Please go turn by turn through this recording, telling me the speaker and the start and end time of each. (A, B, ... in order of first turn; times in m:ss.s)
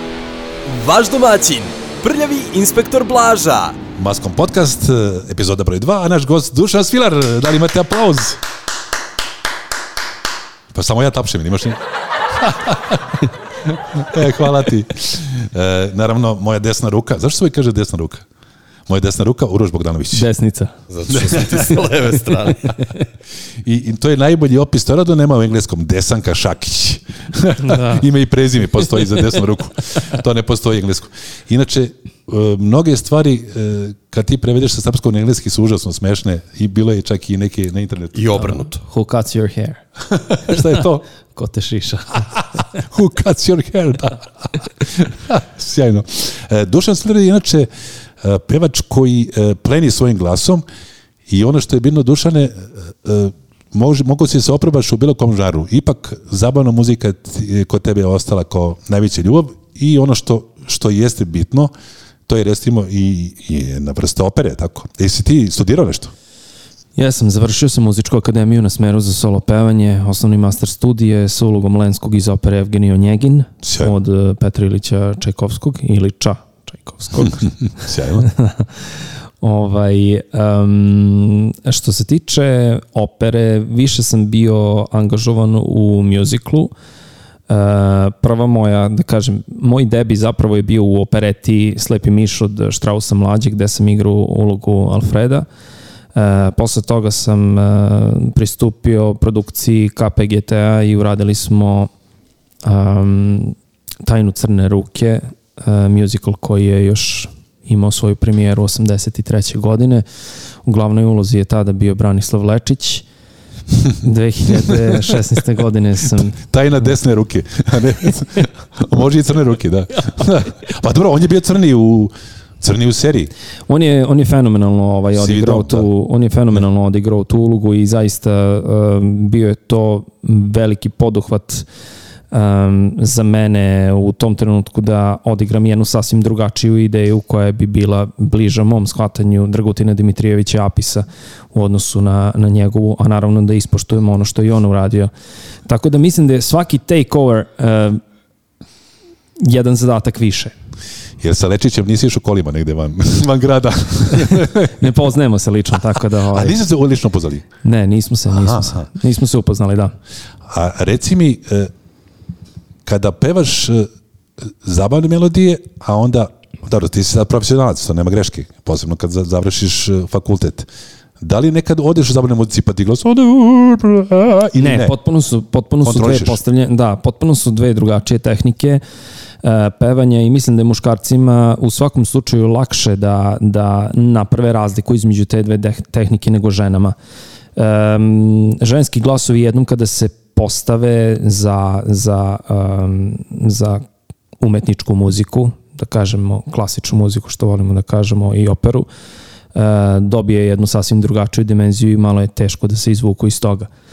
0:00.6-0:03.8 A
0:04.0-0:08.4 B
0:10.7-0:18.2 B
0:18.9-0:20.3 B
0:20.1-0:20.7 C
0:20.9-0:22.8 D
0:21.1-0:21.9 B
0:23.6-0:38.2 B
0:27.6-0:28.0 C
0:38.1-0:38.8 D
0:38.8-0:39.8 C
0:40.1-0:41.0 B
0:40.5-0:40.8 C
0:41.3-0:42.6 C
0:42.1-0:47.7 B
0:48.2-0:50.6 B
0:51.3-1:01.7 B
1:02.3-1:06.1 B
1:07.0-1:17.5 C
1:13.6-1:13.9 B
1:17.2-1:18.3 B
1:18.2-1:18.7 C
1:19.4-1:26.7 C
1:27.5-1:35.4 C
1:36.1-1:41.9 C
1:42.6-1:50.0 C
1:50.6-1:53.0 C
1:54.0-1:56.4 C
1:54.6-1:55.1 B
1:56.4-2:03.3 B
2:03.7-2:11.6 C
2:05.1-2:05.9 B
2:12.3-2:25.1 C
2:25.6-2:28.0 C
2:29.4-2:30.5 C
2:31.2-2:34.8 B
2:34.5-2:36.6 C
2:36.2-2:37.5 B
2:37.6-2:39.9 C
2:38.3-2:38.8 B
2:40.5-2:41.7 B
2:42.8-2:50.7 B
2:51.2-2:55.0 B
2:54.6-2:58.8 C
2:55.8-2:56.4 B
2:59.4-3:07.0 C
3:07.6-3:13.8 C
3:14.4-3:18.9 C
3:19.5-3:23.7 C